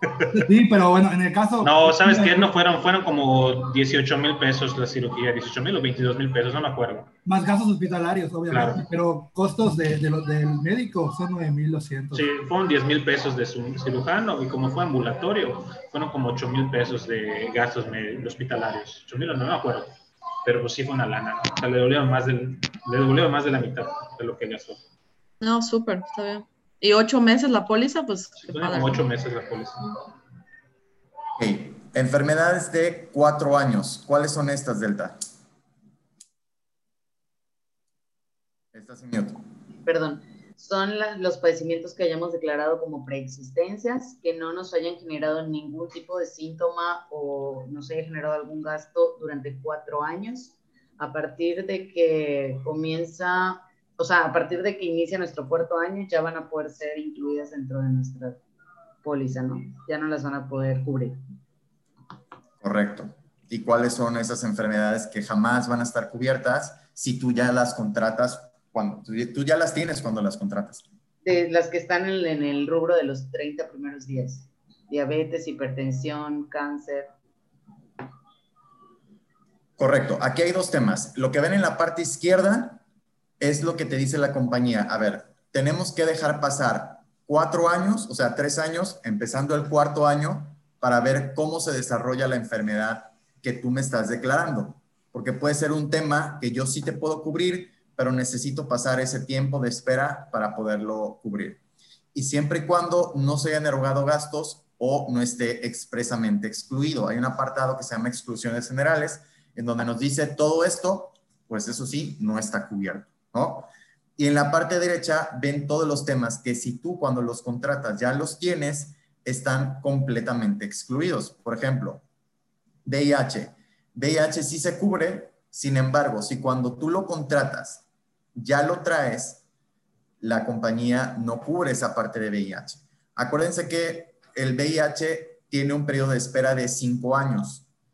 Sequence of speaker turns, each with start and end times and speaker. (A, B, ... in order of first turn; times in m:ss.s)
0:00.2-0:00.5 A
0:00.3-0:02.5 B
0:01.6-0:07.1 A
0:07.2-0:12.3 B
0:08.5-0:08.9 A
0:12.1-0:24.8 A
0:25.4-0:29.1 C
0:28.4-0:30.0 A
0:31.4-0:35.2 D
0:38.7-0:39.4 D
0:39.9-0:58.4 E
0:59.0-1:01.2 E
1:02.6-1:10.8 D
1:11.2-1:17.1 E
1:19.8-1:22.8 D
1:23.4-1:41.6 D
1:42.1-2:02.0 D
2:02.8-2:07.8 D
2:08.4-2:09.4 D
2:10.2-2:17.6 D